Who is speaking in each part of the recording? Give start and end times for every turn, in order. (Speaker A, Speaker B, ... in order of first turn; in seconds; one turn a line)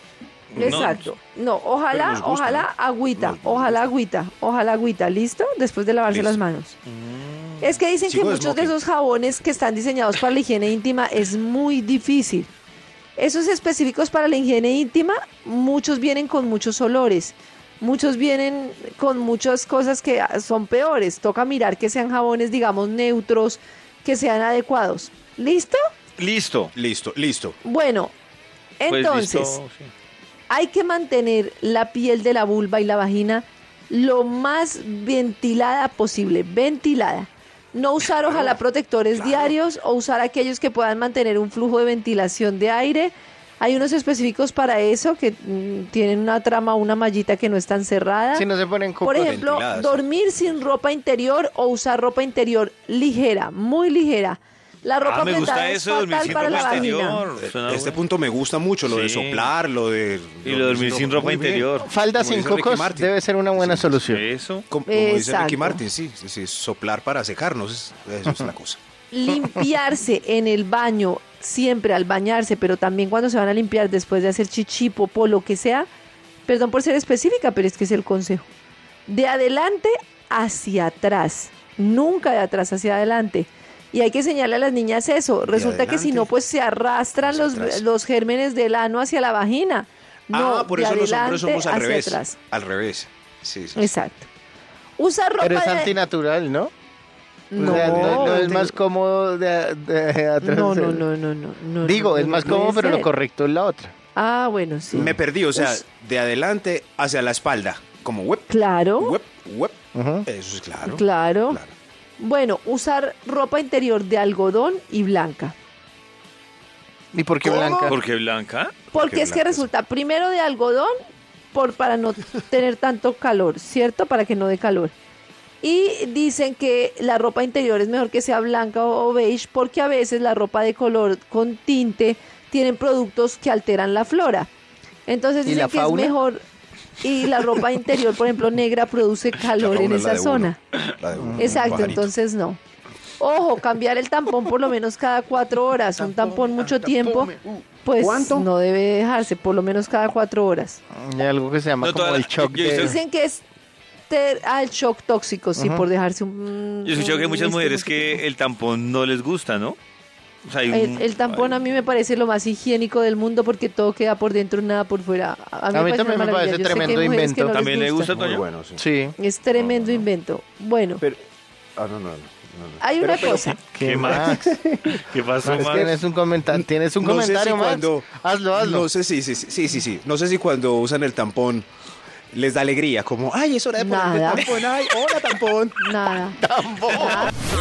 Speaker A: 0.5-1.1
Speaker B: 0.6-6.8
Speaker C: 1.9-3.9
Speaker C: 6.1-6.4
Speaker A: 6.9-7.8
Speaker B: 7.6-12.5
Speaker C: 8.0-8.8
Speaker B: 13.2-25.8
Speaker A: 26.2-26.7
Speaker C: 26.7-27.6
Speaker B: 27.6-28.1
Speaker B: 28.8-29.6
Speaker A: 28.9-29.9
Speaker B: 30.5-48.5
Speaker C: 39.1-39.5
Speaker D: 48.3-49.3
Speaker B: 49.0-57.2
Speaker C: 49.1-50.0
Speaker A: 55.0-58.0
Speaker C: 56.2-56.9
Speaker C: 57.4-64.0
Speaker A: 58.8-59.5
Speaker A: 60.4-61.9
Speaker D: 61.8-64.2
Speaker A: 64.0-64.7
Speaker C: 64.7-68.8
Speaker B: 64.9-65.8
Speaker B: 69.1-75.9
Speaker B: 76.5-78.5
Speaker B: 79.1-92.3
Speaker C: 85.5-86.3
Speaker C: 87.2-87.8
Speaker C: 90.3-93.9
Speaker B: 93.8-94.3
Speaker B: 95.0-96.0
Speaker D: 95.4-96.7
Speaker B: 97.5-98.8
Speaker D: 97.5-101.0
Speaker C: 97.6-98.7
Speaker B: 100.4-103.1
Speaker D: 101.8-103.9
Speaker B: 104.1-105.8
Speaker C: 104.9-111.7
Speaker B: 108.5-109.2
Speaker D: 109.9-110.2
Speaker B: 110.8-111.6
Speaker B: 112.2-115.5
Speaker D: 117.1-118.0
Speaker C: 117.4-117.9
Speaker A: 117.5-118.7
Speaker B: 118.9-120.9
Speaker C: 118.9-119.7
Speaker B: 121.5-124.9
Speaker B: 125.6-134.5
Speaker B: 135.1-136.4
Speaker D: 135.4-136.2
Speaker B: 137.0-140.6
Speaker C: 139.5-142.1
Speaker D: 141.2-141.8
Speaker B: 141.4-142.6
Speaker B: 143.2-150.8
Speaker C: 148.0-148.4
Speaker D: 150.9-153.0
Speaker A: 151.8-153.0
Speaker B: 152.7-153.4
Speaker B: 154.1-158.2
Speaker D: 155.6-155.9
Speaker A: 156.8-159.8
Speaker A: 160.4-161.6
Speaker B: 160.7-168.1
Speaker D: 165.7-167.6
Speaker A: 166.7-168.4
Speaker C: 168.1-168.8
Speaker D: 168.8-169.1
Speaker B: 169.2-171.0
Speaker C: 169.5-170.1
Speaker C: 171.8-173.6
Speaker B: 172.8-173.6
Speaker D: 173.7-174.6
Speaker A: 173.8-175.9
Speaker C: 174.1-174.4
Speaker D: 175.4-178.9
Speaker C: 175.5-175.9
Speaker C: 176.5-181.7
Speaker C: 182.3-185.9
Speaker B: 183.8-184.5
Speaker B: 185.8-187.3
Speaker D: 186.4-187.3